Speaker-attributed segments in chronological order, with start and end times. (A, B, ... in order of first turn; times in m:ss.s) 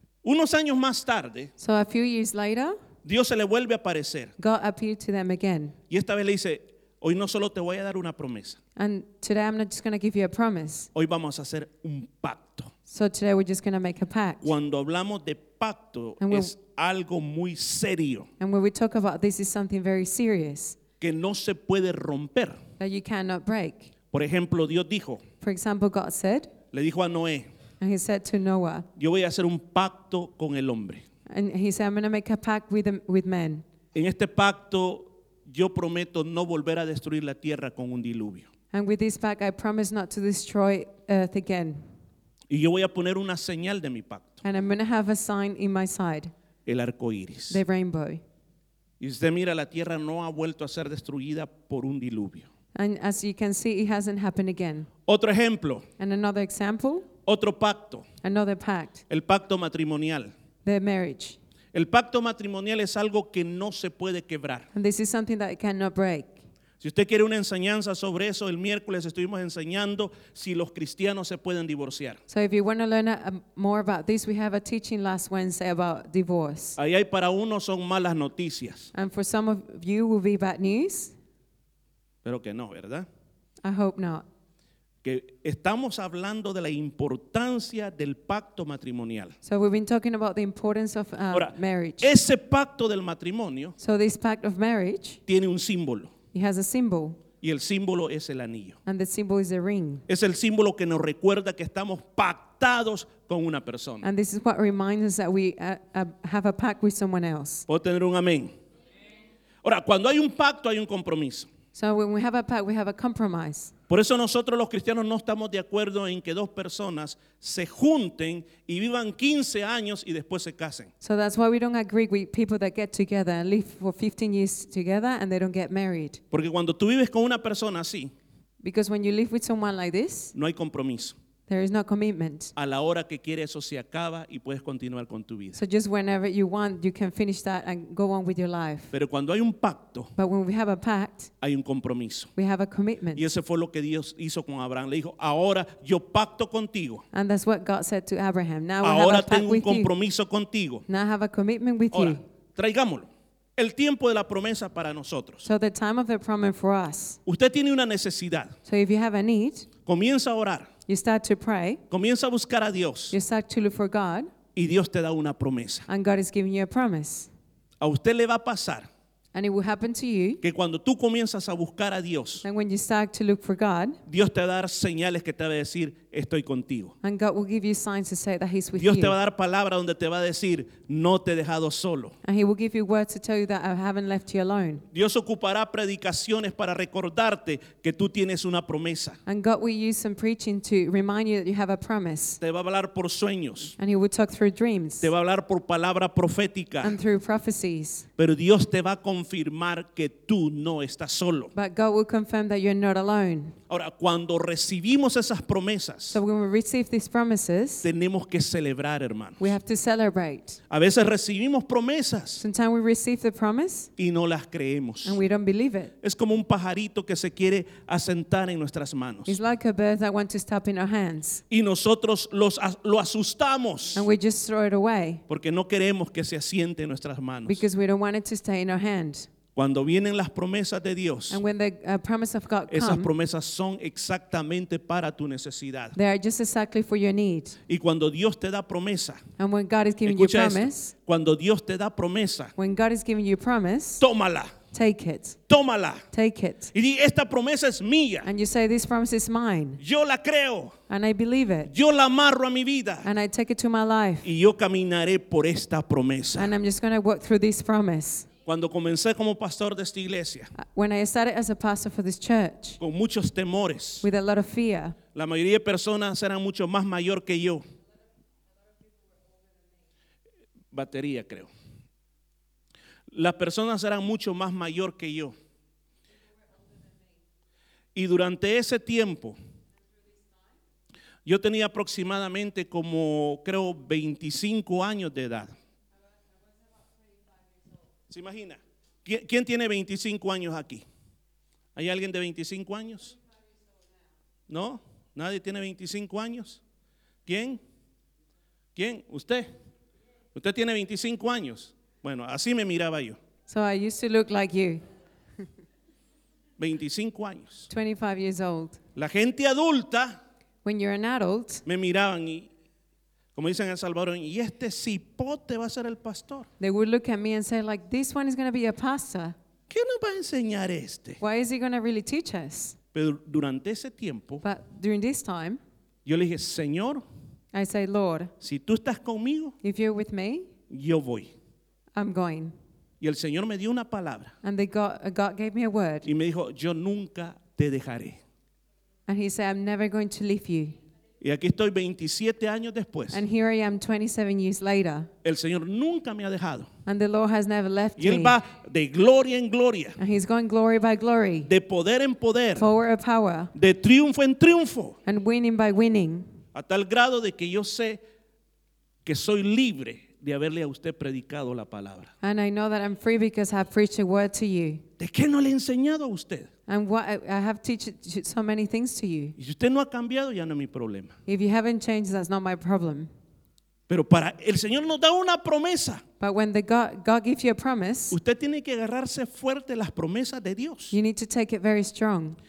0:00.2-0:01.5 A
0:01.6-0:02.8 B
0:03.0-0:04.3 A
0:04.4-0:05.8 B
0:05.9-0:08.6 A
0:08.8-0:10.9 B
0:10.9-0:12.7 A
0:12.9-0:14.5 B
0:14.4-0:18.3 A
0:16.2-0:16.5 B
0:18.4-0:20.8 B
0:21.0-0:22.6 A
0:22.8-0:23.9 B
0:24.1-0:25.2 A
0:25.4-0:26.5 B
0:26.7-0:27.5 A
0:27.8-0:28.9 B
0:29.0-0:31.0 A
0:31.3-0:33.6 B
0:33.9-0:38.5 A
0:38.7-0:41.9 B
0:42.5-0:44.4 A
0:44.4-0:46.3 B
0:46.6-0:47.6 A
0:47.5-0:48.2 B
0:49.0-0:52.5 A
0:52.7-0:54.9 B
0:55.0-0:55.9 A
0:56.0-0:57.1 B
0:57.2-0:58.0 A
0:58.2-0:59.0 B
0:59.1-1:00.3 A
1:00.6-1:01.4 B
1:01.7-1:04.7 A
1:04.7-1:06.4 B
1:06.8-1:12.2 A
1:12.3-1:16.8 B
1:16.8-1:18.9 A
1:18.9-1:21.1 B
1:22.2-1:23.1 A
1:23.6-1:24.2 B
1:25.0-1:29.3 A
1:29.4-1:32.1 B
1:31.3-1:33.7 A
1:33.8-1:35.2 B
1:35.3-1:36.1 A
1:36.3-1:37.2 B
1:37.4-1:38.8 A
1:38.8-1:40.0 B
1:40.1-1:44.0 A
1:44.0-1:47.7 B
1:47.7-1:48.5 A
1:49.6-1:51.5 A
1:51.7-1:53.7 B
1:53.9-2:00.9 A
2:01.0-2:06.2 B
2:06.3-2:08.1 A
2:08.6-2:10.3 B
2:10.3-2:11.1 A
2:11.5-2:12.5 B
2:12.6-2:15.6 A
2:15.6-2:18.9 B
2:18.9-2:20.1 A
2:20.2-2:21.3 B
2:21.4-2:22.3 A
2:22.4-2:23.2 B
2:23.1-2:27.0 A
2:27.1-2:29.9 B
2:28.8-2:30.8 A
2:30.9-2:32.2 B
2:31.9-2:35.4 A
2:35.4-2:37.2 B
2:37.2-2:38.5 A
2:38.6-2:39.7 B
2:39.8-2:40.7 A
2:40.9-2:41.8 B
2:41.9-2:43.1 A
2:43.1-2:44.3 B
2:44.5-2:45.9 A
2:45.9-2:47.3 B
2:47.8-2:48.9 A
2:49.3-2:50.4 B
2:50.4-2:52.4 A
2:52.4-2:54.0 B
2:54.1-2:56.9 A
2:57.0-2:59.2 B
2:58.8-3:02.1 A
3:02.2-3:04.8 B
3:04.9-3:09.2 A
3:09.2-3:12.4 B
3:12.4-3:13.7 A
3:13.8-3:15.1 B
3:15.0-3:17.0 A
3:16.8-3:18.1 B
3:18.2-3:21.5 A
3:21.5-3:23.6 B
3:23.7-3:26.2 A
3:26.1-3:27.8 B
3:27.8-3:29.5 A
3:29.4-3:30.6 B
3:30.7-3:32.4 A
3:32.4-3:33.9 B
3:34.0-3:35.2 A
3:35.0-3:35.9 B
3:36.0-3:39.4 A
3:39.2-3:41.4 B
3:41.5-3:44.0 A
3:43.9-3:45.2 B
3:45.3-3:47.6 A
3:47.4-3:49.3 B
3:49.5-3:51.4 A
3:51.3-3:53.1 B
3:52.7-3:56.0 A
3:55.9-3:57.6 B
3:57.7-3:59.2 A
3:59.4-4:00.9 B
4:00.0-4:02.5 A
4:02.6-4:04.0 B
4:04.0-4:04.5 A
4:04.7-4:05.4 B
4:05.5-4:06.0 A
4:06.1-4:06.7 B
4:06.7-4:08.3 A
4:08.2-4:09.8 B
4:09.8-4:10.8 A
4:10.9-4:11.7 B
4:11.7-4:13.1 A
4:13.0-4:14.3 B
4:14.2-4:16.5 A
4:16.3-4:18.3 B
4:18.4-4:20.5 A
4:20.6-4:22.8 B
4:22.8-4:24.1 A
4:24.0-4:25.0 B
4:25.1-4:27.6 A
4:30.7-4:31.5 A
4:33.1-4:35.3 A
4:37.9-4:39.4 A
4:41.2-4:45.5 A
4:48.1-4:50.8 A
4:51.8-4:53.2 A
4:54.5-4:56.6 A
4:57.2-4:57.6 A
4:58.7-4:59.5 A
5:00.3-5:03.2 A
5:03.5-5:04.8 B
5:06.6-5:07.7 A
5:07.7-5:08.8 B
5:08.9-5:10.2 A
5:10.6-5:11.6 B
5:11.6-5:12.5 A
5:13.3-5:16.5 A
5:16.6-5:19.4 B
5:19.7-5:21.2 A
5:21.2-5:22.8 B
5:22.9-5:24.4 A
5:24.4-5:25.6 B
5:26.0-5:27.0 A
5:27.5-5:28.3 B
5:28.4-5:29.6 A
5:29.6-5:30.5 B
5:30.7-5:31.3 A
5:31.9-5:32.5 B
5:33.0-5:34.3 A
5:34.4-5:36.1 B
5:36.0-5:38.2 A
5:39.1-5:40.8 B
5:41.2-5:43.2 A
5:43.1-5:45.1 B
5:45.2-5:46.7 A
5:46.8-5:48.4 B
5:48.0-5:50.0 A
5:50.0-5:51.5 B
5:51.4-5:52.7 A
5:52.6-5:53.5 B
5:53.5-5:55.0 A
5:55.0-5:56.3 B
5:56.5-5:58.0 A
5:59.0-6:02.1 A
6:02.2-6:04.8 B
6:05.0-6:06.5 A
6:06.7-6:09.3 B
6:09.4-6:11.2 A
6:11.2-6:13.1 B
6:13.9-6:16.0 A
6:16.2-6:18.2 B
6:18.1-6:21.0 A
6:20.9-6:22.4 B